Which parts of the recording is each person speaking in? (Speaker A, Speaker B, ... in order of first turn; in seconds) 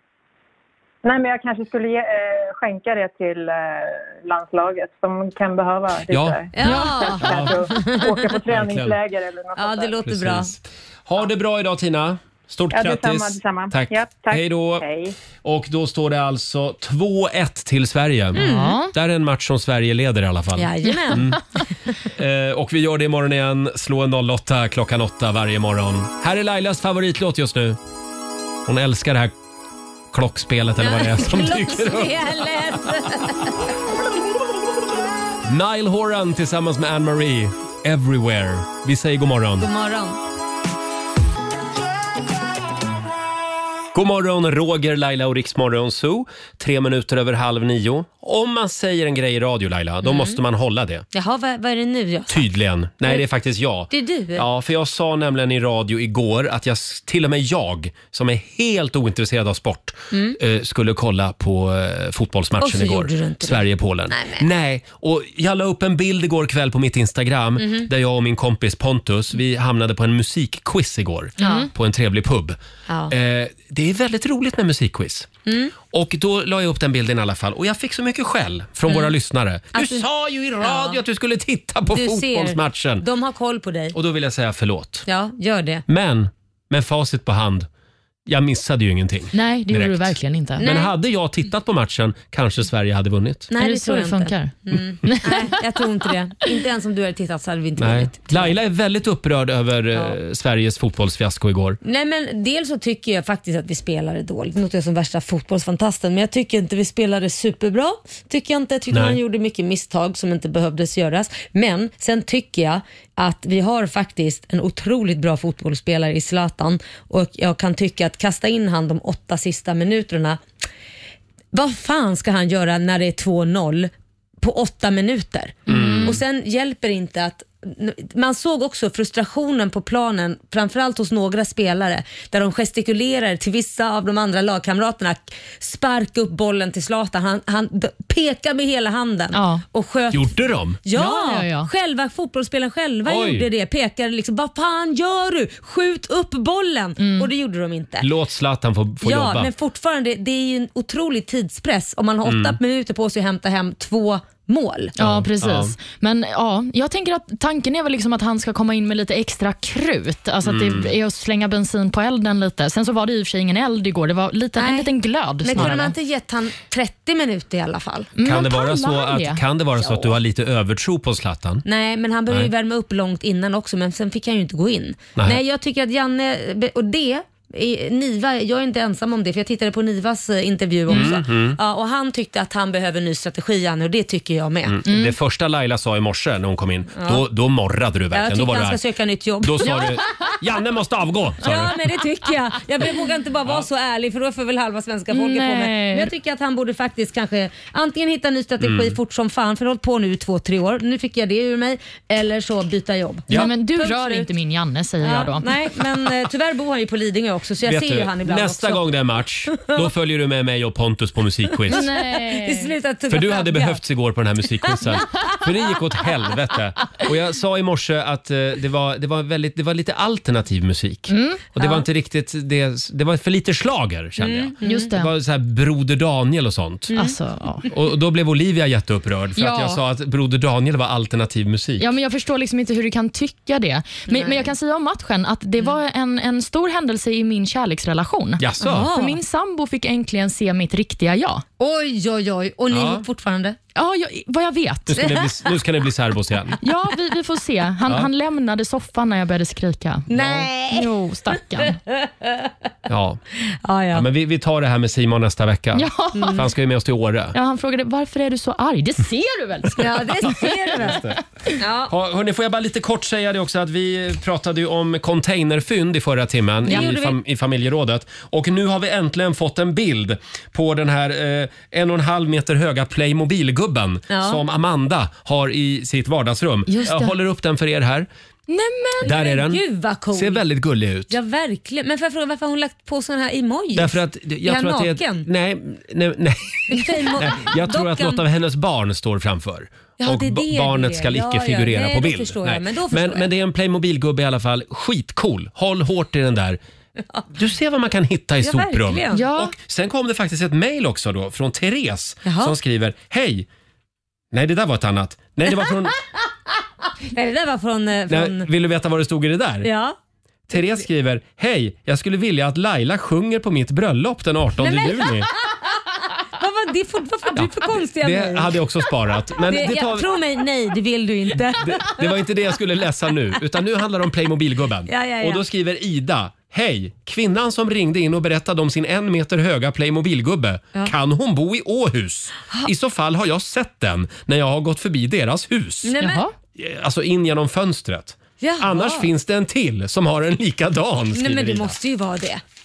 Speaker A: 1.0-10.1, 12.7-15.1
Speaker B: 6.1-6.4, 7.2-7.6, 8.3-9.0, 10.0-14.9, 15.4-21.4, 22.2-27.8, 28.7-29.3, 30.1-32.8, 35.5-39.7, 43.9-51.1, 52.3-75.3, 75.8-83.0, 83.9-85.1, 85.9-87.7, 88.3-93.5, 97.8-101.8, 108.9-109.2, 125.7-126.2, 140.1-140.8, 143.1-143.5, 148.0-149.5, 152.2-152.6, 155.0-155.8, 160.4-160.9, 168.2-171.6, 180.9-181.6, 184.7-188.8, 189.4-191.7, 198.6-199.0, 207.7-211.9, 213.1-226.9, 227.7-231.9, 238.4-238.9, 242.7-243.1, 244.9-246.6, 252.9-253.2, 253.9-257.4, 260.8-261.2, 261.9-278.1, 279.0-279.6, 280.1-281.1, 283.8-296.6, 297.3-303.5, 304.3-306.0, 308.1-309.7, 310.5-315.3, 317.4-320.1, 321.3-335.9, 336.6-341.8
Speaker C: 6.5-8.2, 9.6-10.5, 18.4-18.8, 20.6-21.3, 30.8-33.6, 39.6-40.2, 50.0-50.4, 51.1-52.5, 53.9-54.5, 60.1-60.4, 62.6-64.5, 67.6-67.9, 71.4-71.7, 72.9-73.1, 75.5-75.7, 79.7-80.0, 80.6-81.0, 81.9-84.0, 85.1-85.8, 90.6-90.9, 93.5-98.6, 101.8-120.4, 121.5-148.1, 149.0-154.9, 164.6-164.9, 165.4-168.1, 169.8-170.1, 171.7-184.8, 186.9-187.2, 188.1-190.0, 191.4-204.3, 205.0-209.0, 209.5-209.8, 211.7-213.8, 224.2-224.9, 234.1-234.5, 238.6-239.2, 241.6-243.6, 245.0-245.3, 250.1-250.9, 253.6-254.1, 256.1-256.5, 259.8-261.0, 261.6-261.9, 266.7-267.2, 274.1-274.4, 279.0-280.4, 281.1-285.3, 286.7-288.2, 290.0-293.3, 298.4-299.2, 302.2-302.6, 307.1-308.5, 309.6-310.0, 314.6-318.6, 319.4-322.3, 324.9-325.4, 335.8-336.2, 338.4-339.1, 341.1-342.4
Speaker D: 6.7-7.0, 18.4-18.9, 71.4-71.7, 89.3-90.7, 93.5-95.6, 125.7-126.2, 139.3-139.6, 140.9-141.7, 147.0-147.3, 155.0-165.9, 168.2-169.4, 184.9-185.2, 189.6-190.3, 195.1-196.1, 203.3-205.5, 211.7-212.8, 221.1-221.8, 224.6-225.1, 226.9-227.7, 229.4-229.8, 231.8-241.4, 243.8-245.1, 246.6-251.8, 255.7-256.5, 257.3-261.2, 276.7-277.2, 278.5-279.3, 299.1-299.6, 336.0-336.3